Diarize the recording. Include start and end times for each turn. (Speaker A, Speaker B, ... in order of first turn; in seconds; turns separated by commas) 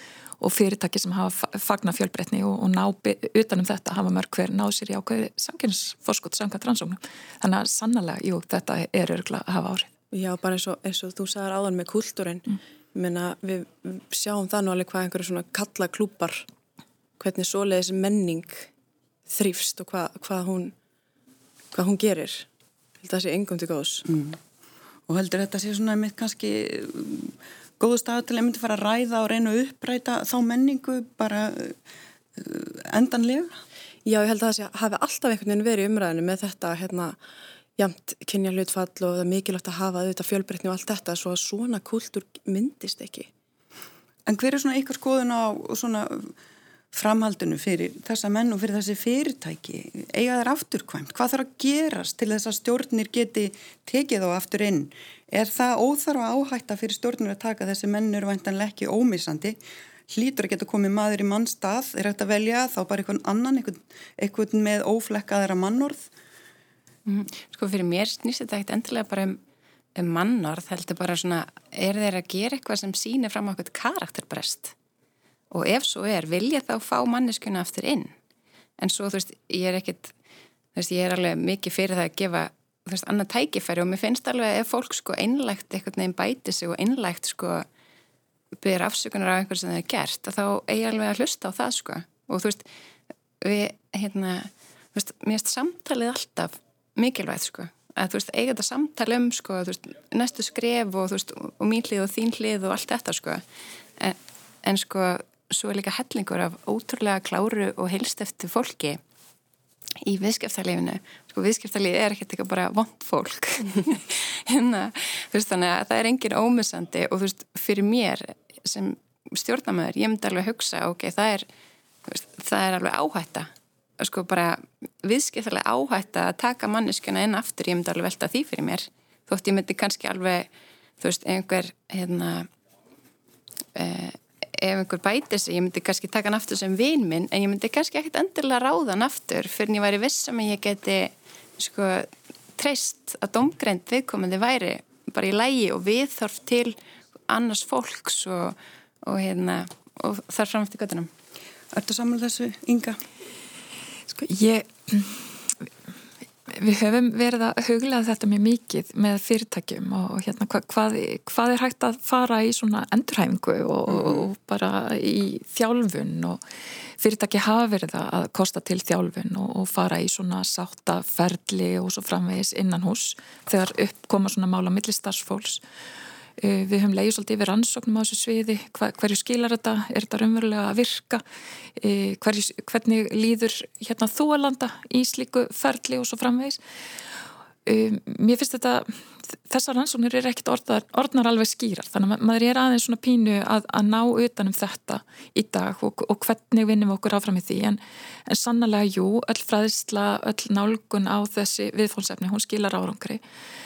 Speaker A: 0.4-9.9, Speaker B: 10.1-16.4, Speaker B: 17.2-18.7, Speaker B: 19.3-20.7, Speaker B: 21.7-22.5, Speaker B: 23.0-24.1, Speaker C: 24.1-24.4, Speaker C: 25.1-31.8, Speaker C: 32.4-33.5, Speaker B: 34.0-37.2, Speaker B: 37.8-43.3, Speaker C: 44.2-46.3, Speaker C: 46.9-59.6, Speaker C: 60.1-66.1, Speaker D: 67.0-69.4, Speaker D: 69.9-74.7, Speaker D: 75.5-78.1, Speaker D: 78.8-80.1, Speaker D: 80.7-87.7, Speaker D: 88.6-92.7, Speaker D: 93.4-103.4, Speaker D: 104.0-109.0, Speaker D: 110.0-121.5, Speaker D: 122.0-130.5, Speaker D: 131.0-132.5, Speaker D: 133.7-146.8, Speaker D: 147.3-151.1, Speaker C: 151.7-153.0, Speaker A: 154.1-155.3, Speaker A: 156.5-166.4, Speaker C: 163.9-164.1, Speaker A: 167.0-175.6, Speaker A: 176.4-181.2, Speaker A: 181.8-186.6, Speaker A: 187.7-203.2